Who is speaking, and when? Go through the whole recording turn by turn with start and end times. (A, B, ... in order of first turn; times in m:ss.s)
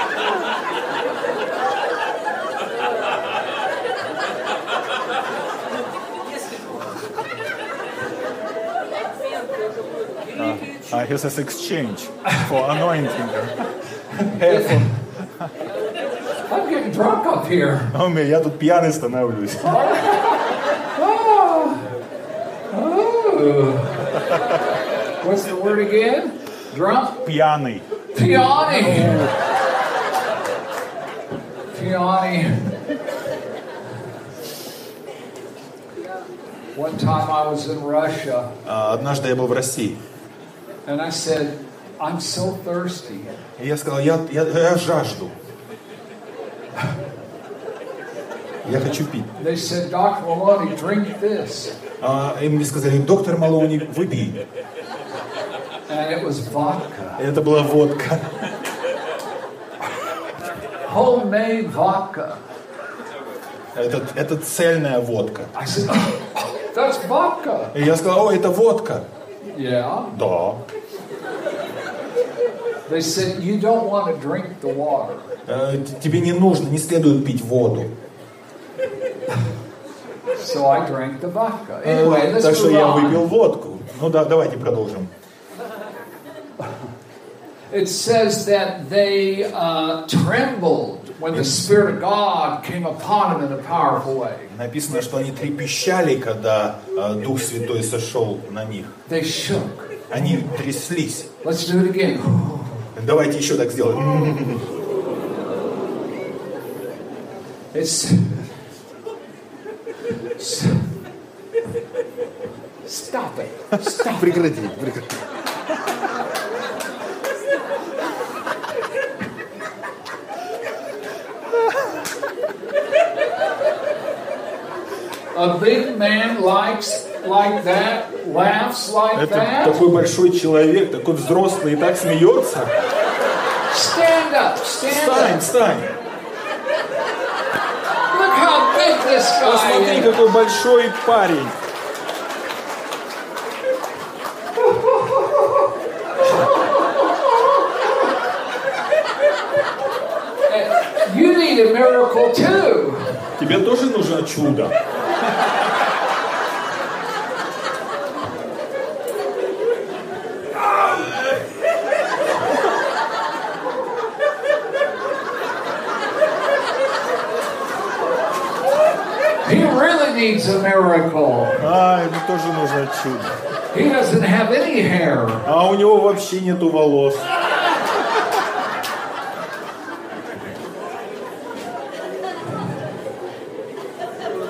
0:10.4-0:15.5 A
0:14.4-0:14.9 B
0:16.5-0:17.9 B
0:17.9-0:19.9 A
0:19.6-0:21.9 B
0:22.7-0:24.1 B
0:25.2-0:27.2 B
0:27.2-0:27.9 A
0:28.1-0:29.3 B
0:28.7-0:29.3 A
0:31.7-0:32.8 B
0:36.8-0:38.5 B
0:38.6-0:40.0 A
0:40.9-0:43.4 B
0:43.6-0:45.4 A
0:48.6-0:49.3 A
0:49.4-0:51.8 B
0:52.0-0:54.4 A
0:55.9-0:57.2 B
0:57.2-0:58.5 A
1:00.8-1:02.4 B
1:03.7-1:05.5 A
1:05.5-1:07.8 B
1:07.7-1:09.1 A
1:09.5-1:10.1 B
1:10.1-1:10.6 A
1:12.9-1:15.4 B
1:15.5-1:18.0 A
1:20.4-1:23.2 B
1:21.8-1:25.1 A
1:27.7-1:34.5 B
1:31.3-1:31.8 A
1:34.5-1:39.0 A
1:39.1-1:40.2 B
1:40.1-1:41.3 A
1:41.4-1:42.9 B
1:43.0-1:44.7 A
1:47.7-1:48.5 B
1:50.4-1:51.0 B
1:52.8-1:54.3 B
1:53.8-1:55.2 A
2:05.3-2:09.8 B
2:09.1-2:12.8 A
2:13.7-2:15.4 B
2:14.8-2:15.9 A
2:18.1-2:20.1 B
2:19.4-2:21.6 A
2:24.6-2:25.6 B
2:30.5-2:33.3 B
2:33.4-2:34.8 A
2:49.4-2:51.7 B
2:51.6-2:53.4 A
2:53.7-2:55.5 B
2:55.4-2:57.3 A